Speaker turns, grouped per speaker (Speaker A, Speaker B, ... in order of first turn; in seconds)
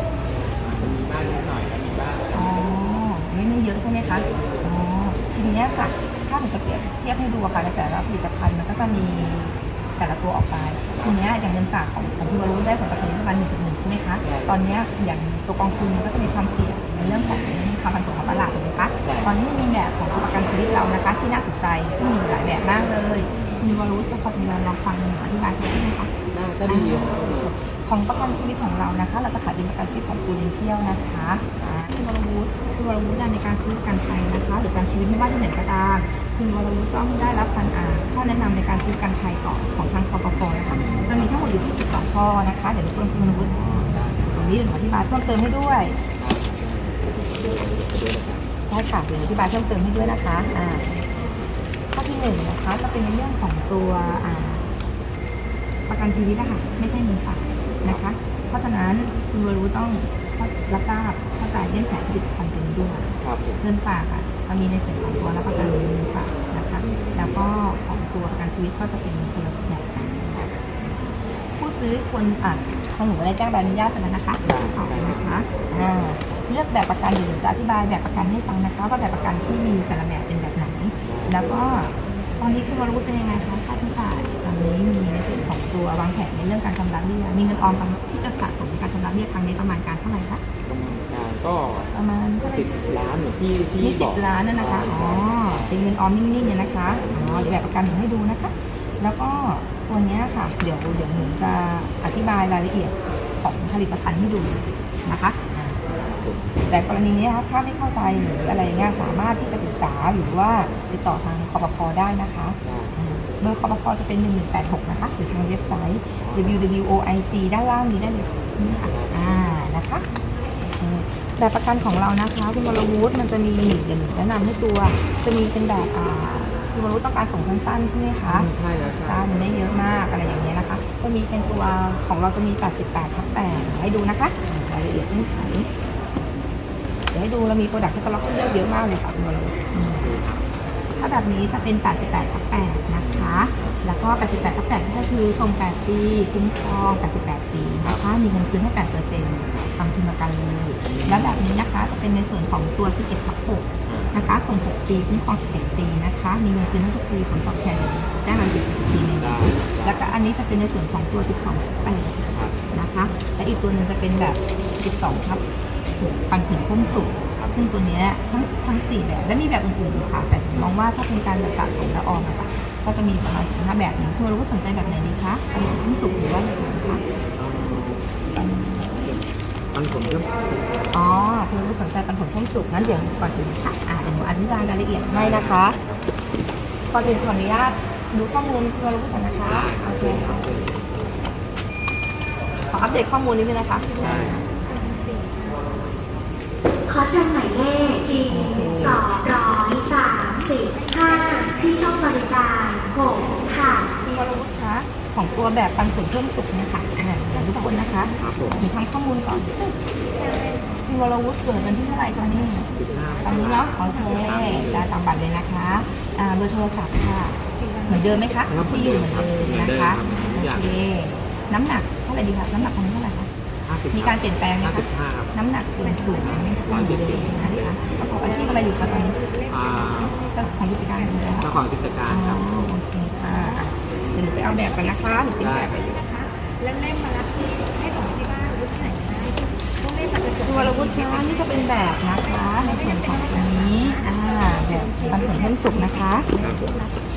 Speaker A: 0.4-2.6, 4.0-4.6, 14.2-14.6, 17.0-17.4, 18.9-19.3, 23.3-23.7, 26.3-27.6, 40.7-41.6, 43.2-44.5, 46.2-48.5, 63.2-63.6, 66.8-67.4, 70.3-70.6, 74.4-75.9, 81.0-81.5, 90.7-95.8, 97.0-97.6, 106.0-106.7, 112.6-113.0, 116.2-116.6, 118.7-119.5, 120.2-120.4, 128.3-129.9, 139.9-140.4, 142.9-143.8, 147.8-148.1, 149.4-149.8, 150.9-151.4, 153.9-154.2, 159.2-160.1, 162.3-162.6, 166.8-167.7, 177.3-180.9, 182.8-183.1, 185.1-186.1, 189.4-191.2, 194.0-194.4, 208.2-208.6, 212.8-214.9, 218.5-220.7, 223.6-225.3, 226.2-227.9, 229.5-230.2, 231.4-232.6, 235.4-236.0, 246.4-246.7
Speaker B: 2.3-26.1, 26.6-43.6, 44.2-46.0, 48.7-51.0, 51.9-54.6, 55.9-63.1, 63.6-71.0, 71.6-90.4, 91.9-92.7, 93.8-105.8, 106.7-120.0, 120.8-128.5, 129.0-135.7, 137.1-140.1, 141.0-177.0, 178.3-178.9, 180.9-185.8, 186.9-190.4, 192.7-194.4, 198.3-199.1, 204.0-209.8, 210.9-212.7, 213.2-223.3, 223.9-229.2, 230.3-231.5, 232.1-235.8, 240.4-246.3
Speaker C: 175.7-176.4, 193.7-195.6, 200.2-204.6, 207.3-208.7, 209.9-215.1, 217.6-219.3, 220.0-220.4, 225.8-231.6, 233.2-247.0
Speaker D: 196.9-203.9